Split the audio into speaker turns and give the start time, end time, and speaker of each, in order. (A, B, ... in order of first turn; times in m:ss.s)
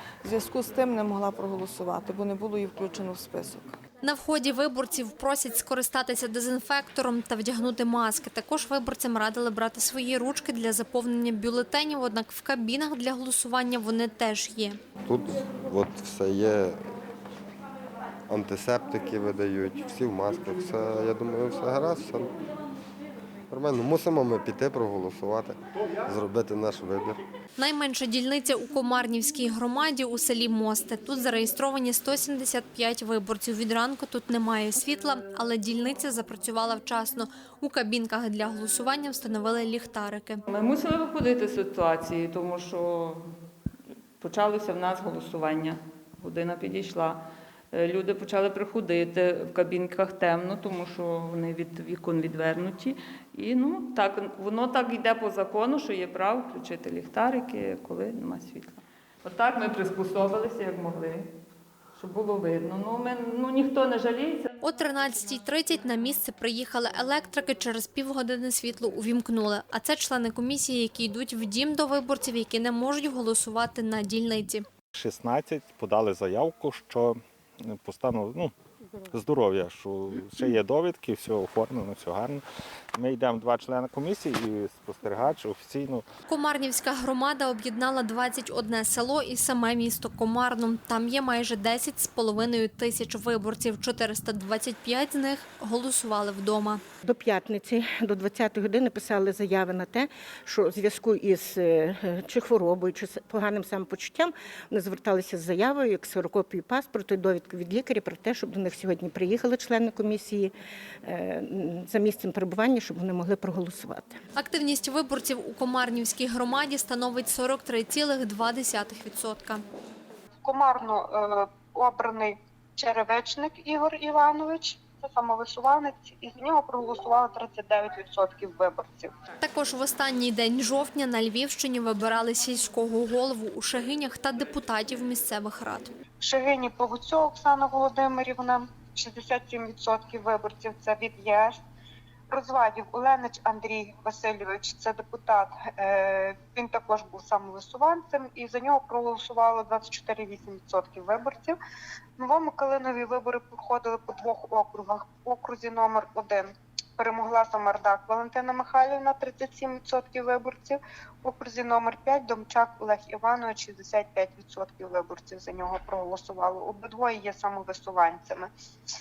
0:00.2-0:03.8 A
0:04.0-0:14.8 B
0:15.0-0:16.8 C
0:18.3-0:22.3 C
0:23.5-0:27.2 C
0:27.6-0:40.4 B
0:40.5-0:43.2 D
0:44.2-0:47.2 D
0:47.7-1:01.3 D
1:02.0-1:04.5 D
1:04.6-1:14.6 B
1:14.9-1:18.5 E
1:19.1-1:22.4 E
1:22.9-1:26.0 E
1:26.3-1:36.8 B
1:37.0-1:50.5 F
1:51.0-1:54.2 F
1:54.4-1:59.6 B
2:00.4-2:09.1 G
2:09.4-2:15.9 B
2:16.2-2:21.6 G
2:22.3-2:31.6 G
2:32.2-2:48.5 G